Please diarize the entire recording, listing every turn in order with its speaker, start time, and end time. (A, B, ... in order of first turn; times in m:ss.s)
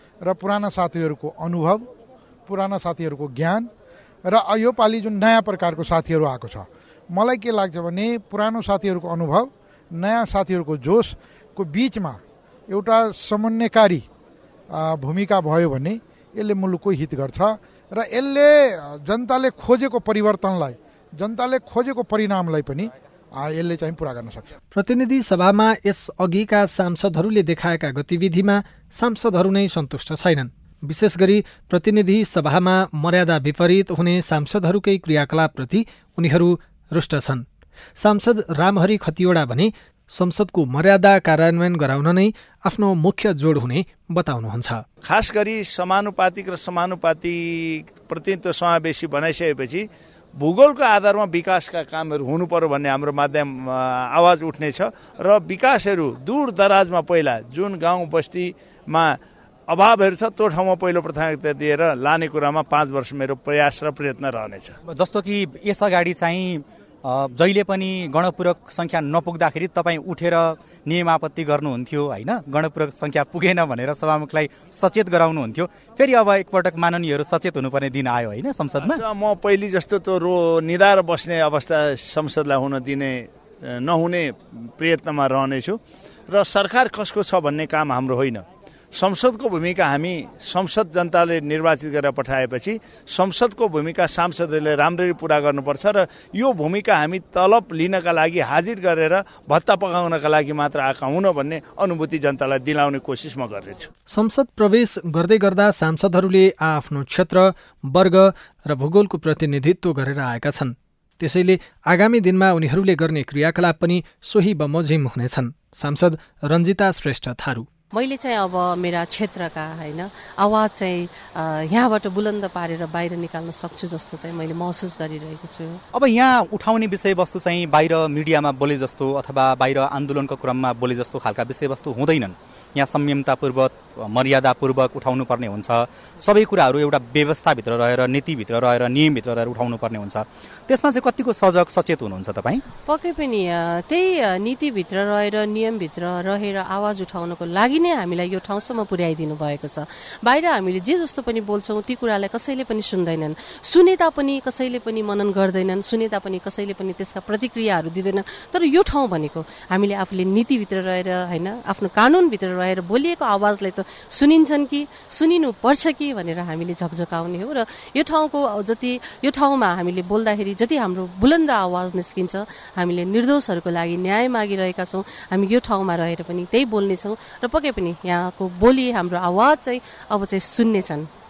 0:00.2-0:01.9 A
0:02.5-0:03.7 A
0:04.2-0:14.0 A
0:14.7-0:24.6 A
0:24.7-0:37.4 B
0:38.0-0:44.8 B
0:45.0-1:04.8 C
1:04.9-1:19.0 D
1:18.8-1:43.9 C
1:44.1-1:57.7 B
1:57.9-2:05.8 E
2:05.9-2:22.6 D
2:22.9-3:01.1 E